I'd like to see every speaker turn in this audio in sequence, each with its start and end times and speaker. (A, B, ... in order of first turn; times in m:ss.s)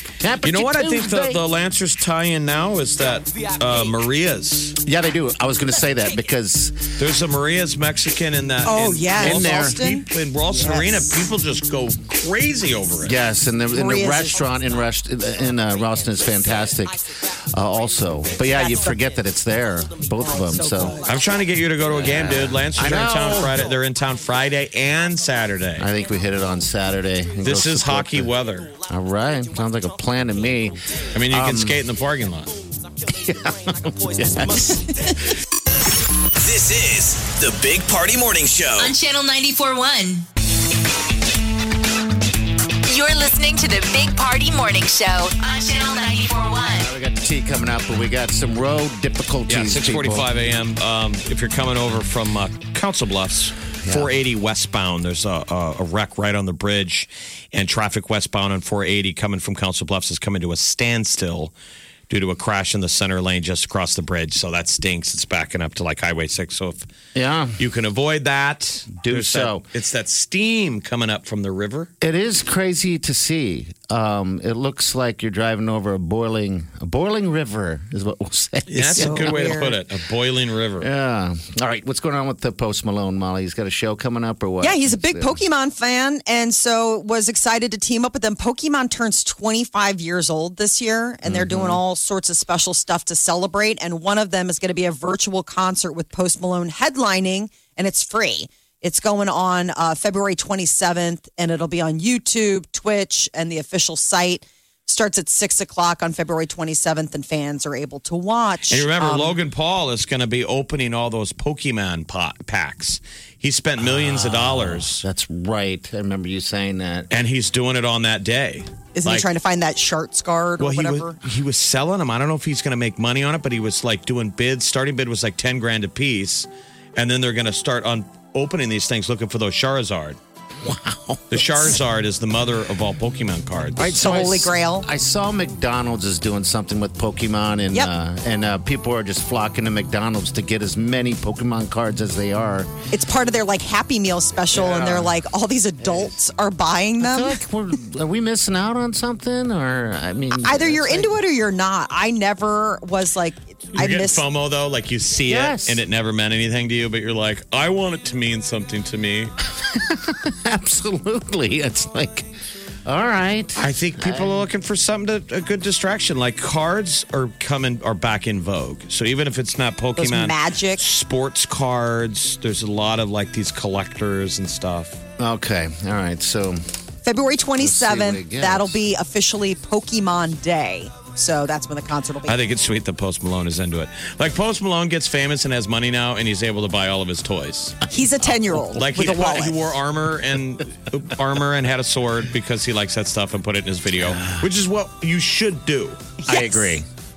0:00.2-0:01.4 A
0:00.4-0:04.8 B
0:04.8-0:06.9 A
0:07.0-0:13.2 B
0:08.6-0:11.0 C
0:09.2-0:09.8 A
0:13.0-0:21.0 A
0:13.7-0:14.4 C
0:18.5-0:19.0 C
0:20.2-0:21.1 C
0:21.0-0:25.9 B
0:21.9-0:23.7 A
0:25.8-0:31.8 A
0:27.4-0:28.7 B
0:31.1-0:32.6 B
0:33.1-0:35.1 A
0:36.4-0:39.0 D
0:38.8-0:40.3 E
0:42.8-0:46.9 E
0:46.8-0:50.3 A
0:49.5-1:01.5 B
0:53.8-0:54.1 A
1:02.1-1:06.9 B
1:07.1-1:07.6 A
1:07.6-1:11.9 B
1:09.0-1:09.6 A
1:12.0-1:19.6 A
1:18.7-1:20.9 B
1:19.0-1:19.8 C
1:20.8-1:25.4 A
1:24.6-1:49.3 C
1:31.2-1:31.8 A
1:48.7-1:55.0 B
1:53.8-1:57.1 A
1:57.1-1:59.3 B
1:58.9-2:01.2 C
2:00.6-2:10.2 B
2:10.6-2:11.7 A
2:11.3-2:14.0 B
2:13.8-2:22.7 A
2:13.8-2:14.8 C
2:22.9-2:27.4 C
2:24.5-2:25.1 A
2:25.8-2:26.1 A
2:27.0-2:31.1 A
2:30.4-2:34.2 C
2:33.7-2:39.3 B
2:35.2-2:35.8 A
2:39.5-2:42.3 A
2:42.8-2:44.5 A
2:43.6-2:55.0 B
2:50.0-2:50.8 C
2:55.2-2:56.6 A
2:57.0-3:02.4 C
2:57.6-2:58.8 A
3:02.3-3:07.8 B
3:07.9-3:09.6 C
3:08.7-3:16.0 B
3:14.0-3:14.4 A
3:16.2-3:16.8 C
3:16.2-3:16.8 A